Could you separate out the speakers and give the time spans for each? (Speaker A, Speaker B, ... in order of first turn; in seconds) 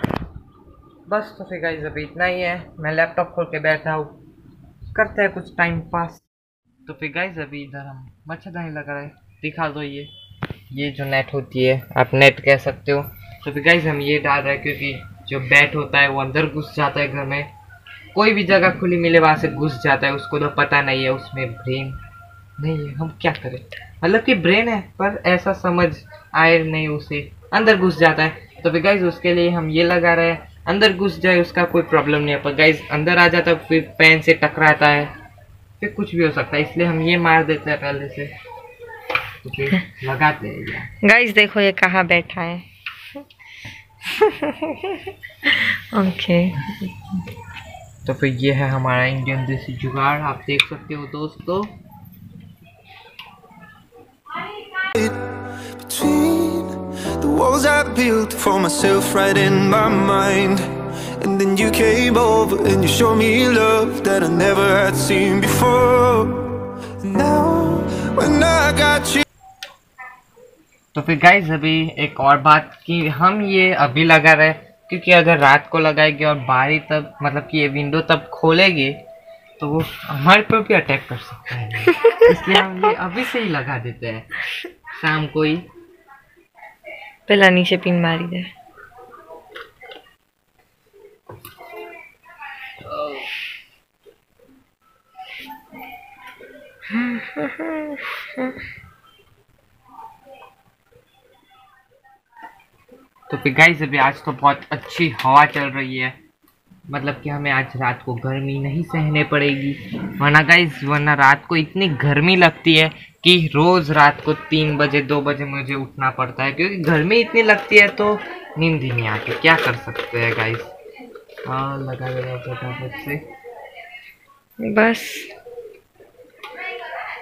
Speaker A: 1.1-4.2, 4.9-6.2, 6.8-10.1, 10.7-17.5, 18.1-22.0, 22.6-35.1, 35.8-38.3, 39.4-40.9, 48.0-51.7, 70.9-79.0, 79.6-84.4, 85.0-85.7, 103.3-106.2, 106.9-120.7, 121.5-123.2
Speaker B: 41.0-42.6, 44.0-46.7, 87.3-88.5, 96.9-98.5, 124.6-125.3
Speaker C: 54.8-55.2, 55.8-60.6, 61.2-66.5, 67.0-69.2